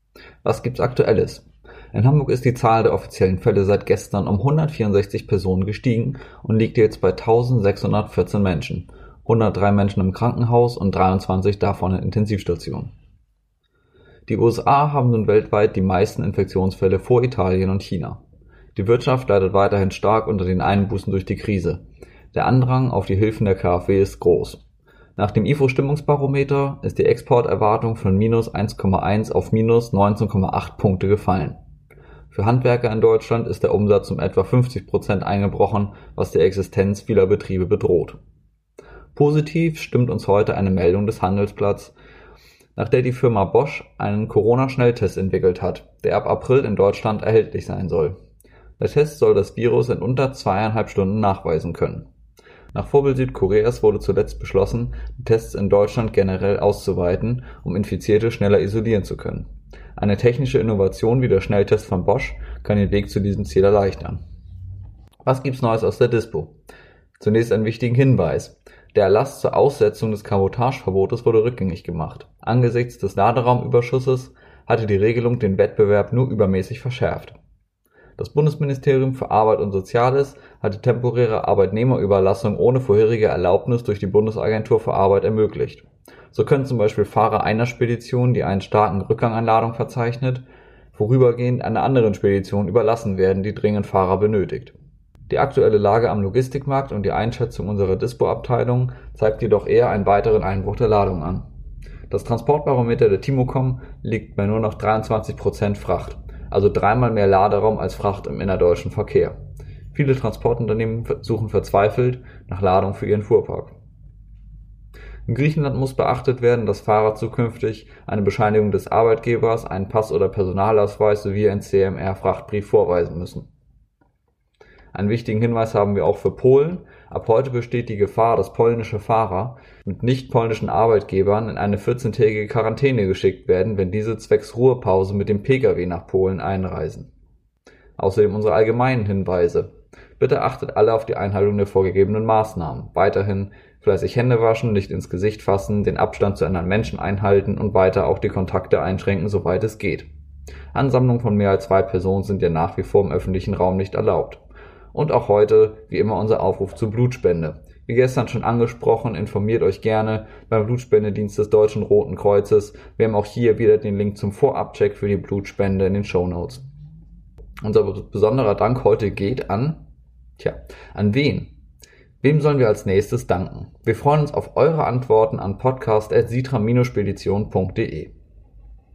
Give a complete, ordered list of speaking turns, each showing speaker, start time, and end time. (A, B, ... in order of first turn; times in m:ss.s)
0:00.4-0:12.9 A
0:14.3-0:18.2 A
0:18.7-0:21.8 A
0:22.3-0:24.6 A
0:25.2-0:31.6 A
0:32.3-0:38.2 A
0:39.1-0:41.9 A
0:42.8-0:48.2 A
0:48.8-0:52.1 A
0:52.7-1:04.2 A
1:05.2-1:06.5 A
1:07.2-1:17.4 A
1:18.2-1:34.8 A
1:35.3-1:41.4 A
1:42.1-1:49.4 A
1:49.9-1:53.7 A
1:55.3-2:03.5 A
2:04.9-2:17.1 A
2:18.0-2:30.1 A
2:30.7-2:34.4 A
2:34.9-2:46.6 A
2:47.6-2:49.8 A
2:50.4-2:51.5 A
2:52.2-2:58.1 A